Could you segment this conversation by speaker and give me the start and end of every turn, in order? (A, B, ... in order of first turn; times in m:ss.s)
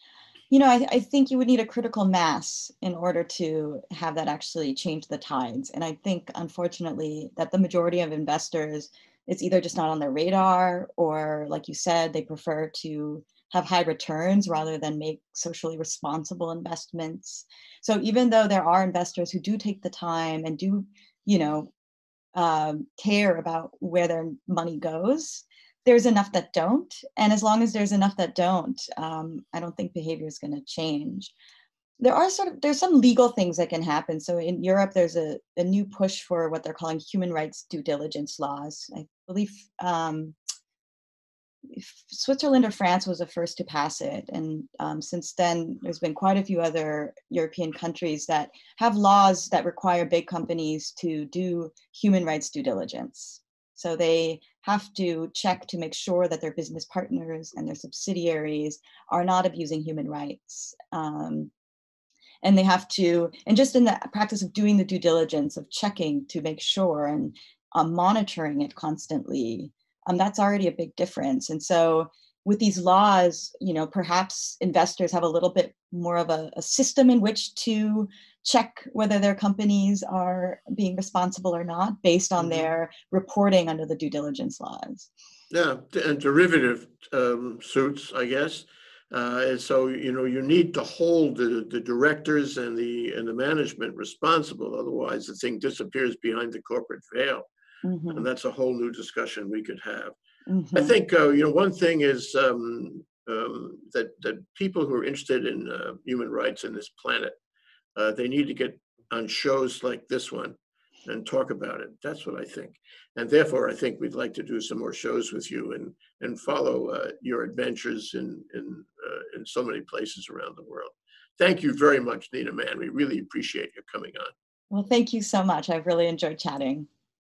0:00.5-0:21.7 A
0:22.4-0:31.3 A
0:32.0-0:40.4 A
0:41.7-1:01.5 A
1:02.4-1:25.1 A
1:22.4-1:22.7 B
1:25.5-1:37.5 B
1:37.8-1:38.2 A
1:38.1-1:40.2 B
1:40.5-1:40.9 A
1:40.8-1:47.4 B
1:48.0-2:04.3 B
2:04.7-2:06.9 A